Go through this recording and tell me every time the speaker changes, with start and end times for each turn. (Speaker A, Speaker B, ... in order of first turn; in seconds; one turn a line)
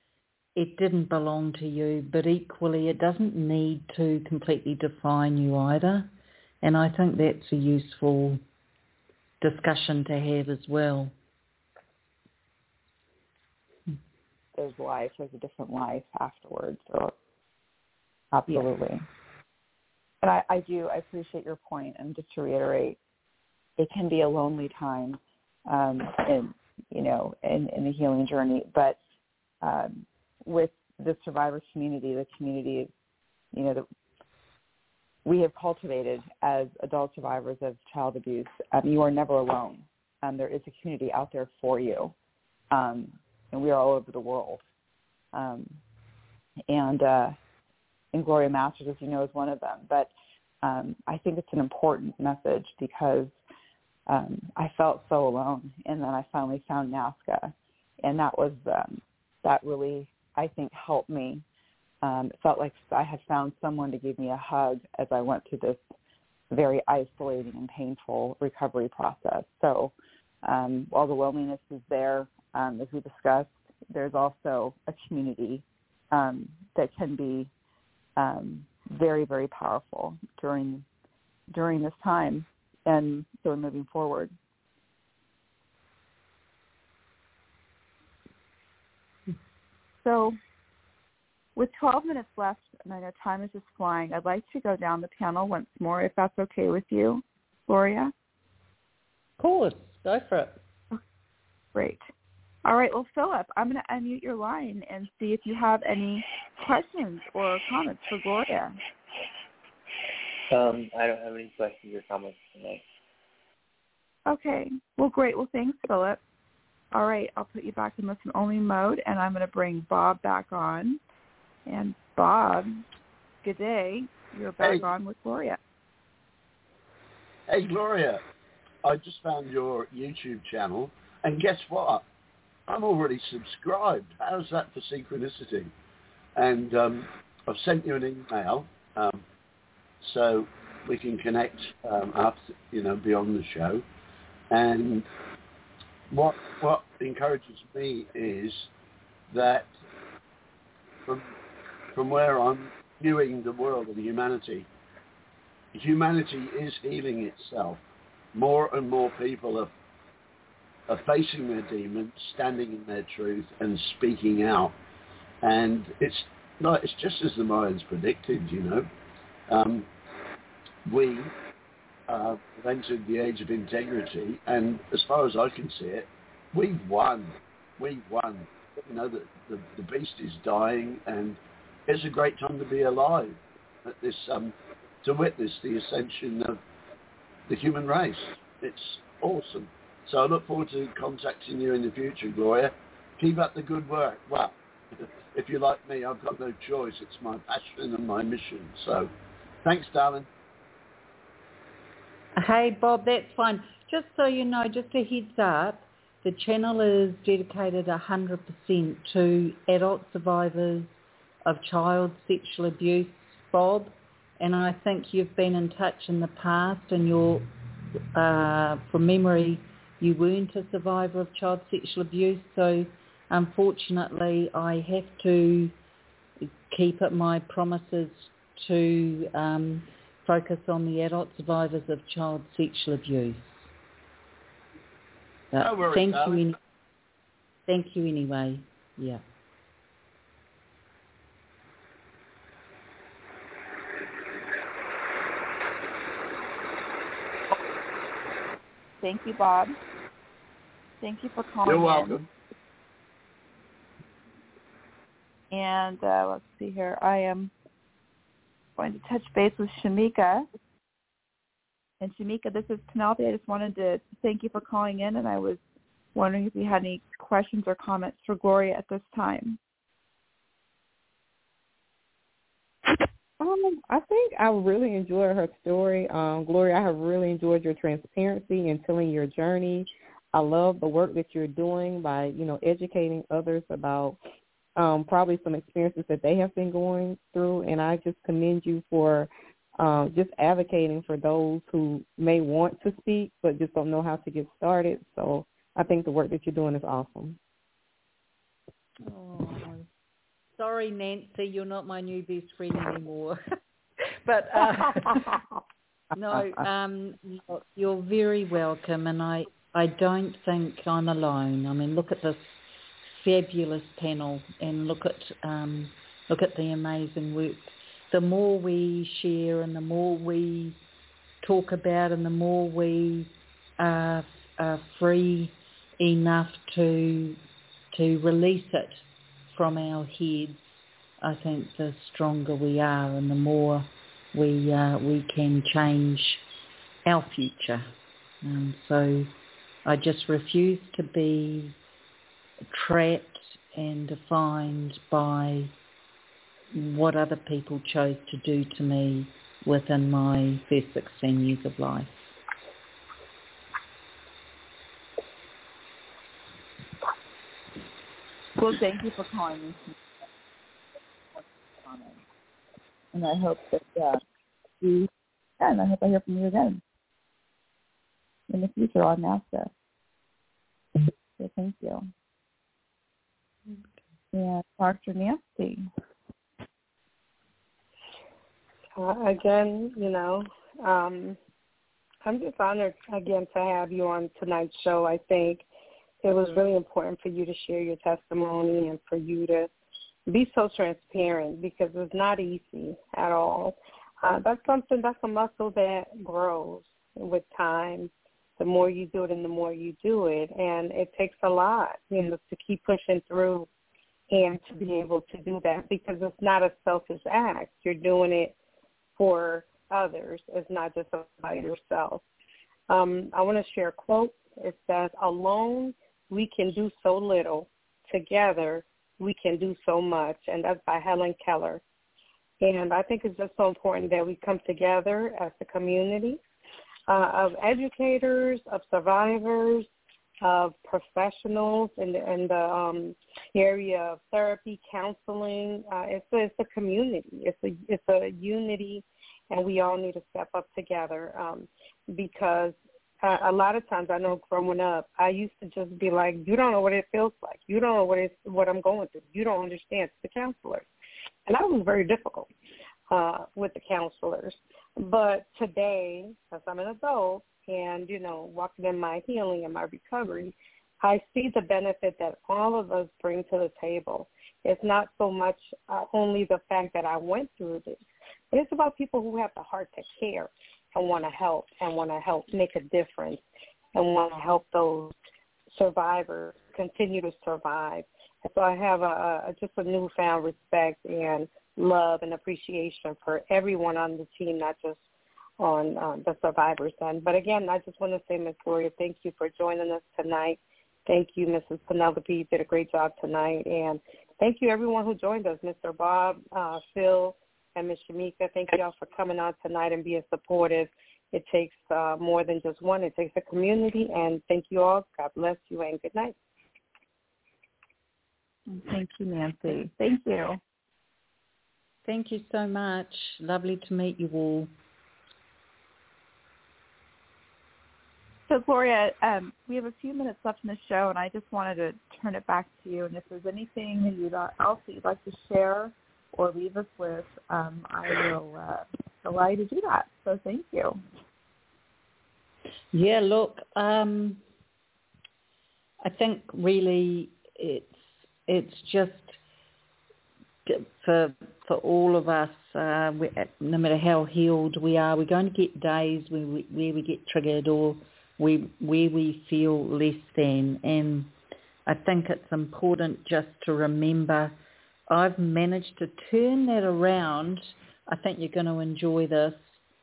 Speaker A: 0.6-6.1
Speaker A: 6.6-8.4
Speaker A: 9.4-11.1
Speaker B: 14.6-17.1
Speaker B: 18.3-19.1
Speaker B: 20.2-23.0
Speaker B: 23.8-29.0
Speaker B: 29.6-32.9
Speaker B: 33.5-33.9
Speaker B: 35.2-42.1
Speaker B: 42.7-44.6
Speaker B: 45.3-45.8
Speaker B: 46.7-47.4
Speaker B: 48.1-53.4
Speaker B: 54.1-61.5
Speaker B: 62.0-65.8
Speaker B: 66.5-77.5
Speaker B: 78.2-80.9
Speaker B: 81.5-84.3
Speaker B: 90.0-90.4
Speaker B: 91.6-98.1
Speaker A: 99.4-100.6
Speaker B: 101.8-102.0
Speaker B: 102.7-108.8
Speaker C: 110.5-112.8
Speaker B: 114.3-116.2
Speaker B: 116.9-121.0
Speaker B: 121.7-122.8
Speaker B: 123.4-125.6
Speaker D: 127.5-128.2
Speaker D: 128.8-132.1
Speaker D: 132.7-135.7
Speaker D: 136.4-139.2
Speaker D: 140.0-143.8
Speaker D: 144.5-145.1
Speaker D: 146.1-148.7
Speaker D: 149.3-149.7
Speaker D: 151.1-151.3
Speaker D: 151.9-154.7
Speaker D: 155.7-157.8
Speaker D: 158.3-159.7
Speaker D: 160.9-164.8
Speaker D: 165.4-168.9
Speaker D: 169.5-169.9
Speaker D: 170.8-171.3
Speaker D: 172.1-186.6
Speaker D: 187.5-199.1
Speaker D: 199.7-200.3
Speaker A: 202.4-210.9
Speaker A: 211.5-217.5
Speaker A: 218.2-225.7
Speaker A: 226.7-233.7
Speaker A: 235.5-236.6
Speaker D: 235.6-236.5
Speaker A: 237.7-239.2
Speaker B: 249.0-249.8
Speaker B: 251.0-252.3
Speaker D: 251.7-252.3
Speaker B: 255.5-257.5
Speaker B: 258.8-260.5
Speaker B: 262.0-265.6
Speaker B: 266.1-269.6
Speaker E: 273.4-284.2
Speaker E: 284.8-297.4
Speaker A: 299.1-299.9
Speaker A: 300.6-303.4
Speaker A: 304.2-305.4
Speaker A: 306.1-320.8
Speaker A: 321.4-327.4
Speaker A: 327.9-330.7
Speaker A: 331.2-336.4
Speaker A: 337.1-337.9
Speaker A: 338.4-339.3
Speaker A: 339.9-341.8
Speaker A: 342.7-345.7
Speaker A: 346.7-352.3
Speaker B: 358.6-360.0
Speaker B: 361.3-362.2
Speaker B: 363.1-364.2
Speaker B: 364.8-365.1
Speaker B: 365.6-366.8
Speaker B: 368.5-369.7
Speaker B: 371.4-372.1
Speaker B: 374.3-375.9
Speaker F: 379.0-381.4
Speaker F: 382.2-385.7
Speaker F: 386.2-389.7
Speaker F: 390.3-403.7
Speaker F: 404.3-408.6
Speaker F: 409.2-412.2
Speaker F: 412.9-421.8
Speaker F: 422.6-426.4
Speaker F: 427.1-429.9
Speaker F: 430.4-450.9
Speaker F: 451.5-452.5
Speaker F: 453.1-468.0
Speaker F: 468.5-473.4
Speaker F: 473.9-475.1
Speaker F: 475.7-485.0
Speaker F: 485.6-506.4
Speaker B: 508.7-510.6
Speaker A: 512.1-514.7
Speaker B: 518.5-531.0
Speaker A: 532.9-534.4
Speaker A: 536.0-539.4
Speaker A: 540.7-551.3
Speaker A: 551.9-554.6
Speaker A: 555.1-559.8